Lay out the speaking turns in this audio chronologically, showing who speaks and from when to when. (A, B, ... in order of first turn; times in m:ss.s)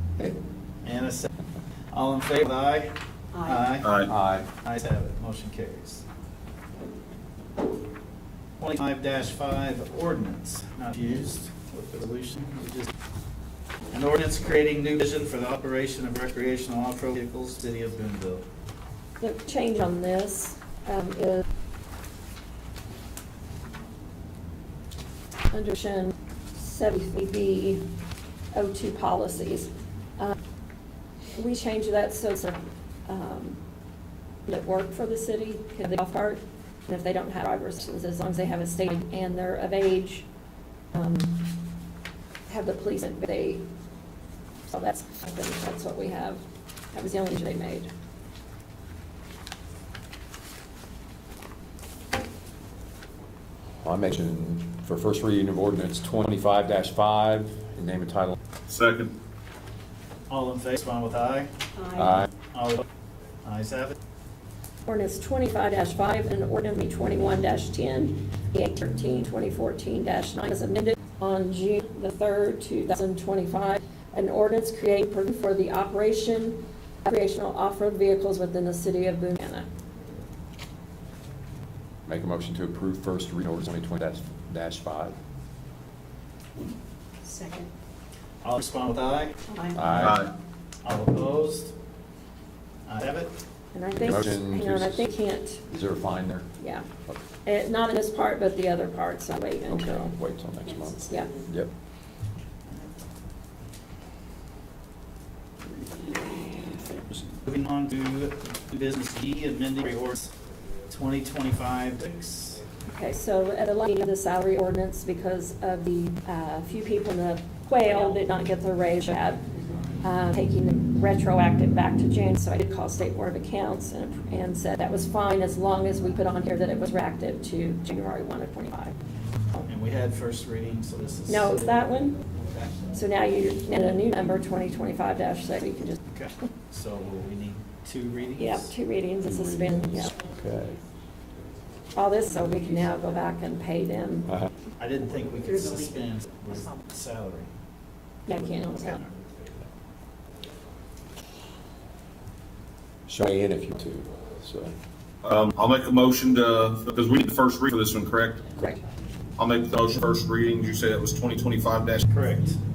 0:00.8-0:01.3 A
0:01.9-0:04.0 A
0:03.3-0:03.7 B
0:03.8-0:04.1 C
0:04.0-0:04.5 D
0:04.6-0:06.0 A
0:08.6-0:12.9 A
0:13.9-0:18.4 A
0:19.2-0:21.4 E
0:25.5-0:27.8 E
0:28.5-0:30.4 E
0:31.4-0:33.6 E
0:34.5-0:40.3 E
0:40.9-0:41.7 E
0:42.4-0:43.6 E
0:44.6-0:47.9 E
0:53.8-0:58.4 D
0:58.7-0:59.1 C
1:00.3-1:01.5 A
1:01.8-1:02.2 B
1:02.0-1:02.3 D
1:02.5-1:02.8 A
1:03.4-1:04.0 A
1:04.8-1:19.7 E
1:22.0-1:25.2 D
1:27.2-1:27.7 B
1:28.4-1:29.4 A
1:29.5-1:30.1 B
1:29.7-1:30.2 D
1:30.0-1:30.3 C
1:30.8-1:31.7 A
1:32.8-1:33.3 A
1:33.7-1:35.6 E
1:34.0-1:35.1 D
1:35.7-1:36.5 D
1:36.6-1:36.8 E
1:37.4-1:40.1 E
1:39.9-1:41.7 D
1:40.6-1:41.5 B
1:45.6-1:47.3 D
1:47.4-1:50.3 A
1:50.9-1:52.6 A
1:52.8-1:59.4 E
1:57.8-1:58.3 B
2:00.0-2:08.9 E
2:09.6-2:11.7 A
2:11.3-2:12.2 E
2:12.3-2:12.8 A
2:12.9-2:16.0 E
2:16.1-2:18.7 A
2:18.4-2:20.1 E
2:19.2-2:20.8 D
2:21.9-2:24.3 E
2:24.8-2:27.5 A
2:25.4-2:26.8 B
2:28.2-2:29.0 E
2:28.3-2:29.1 A
2:33.1-2:34.7 D
2:35.2-2:38.5 C
2:39.4-2:42.0 C
2:42.0-2:42.6 A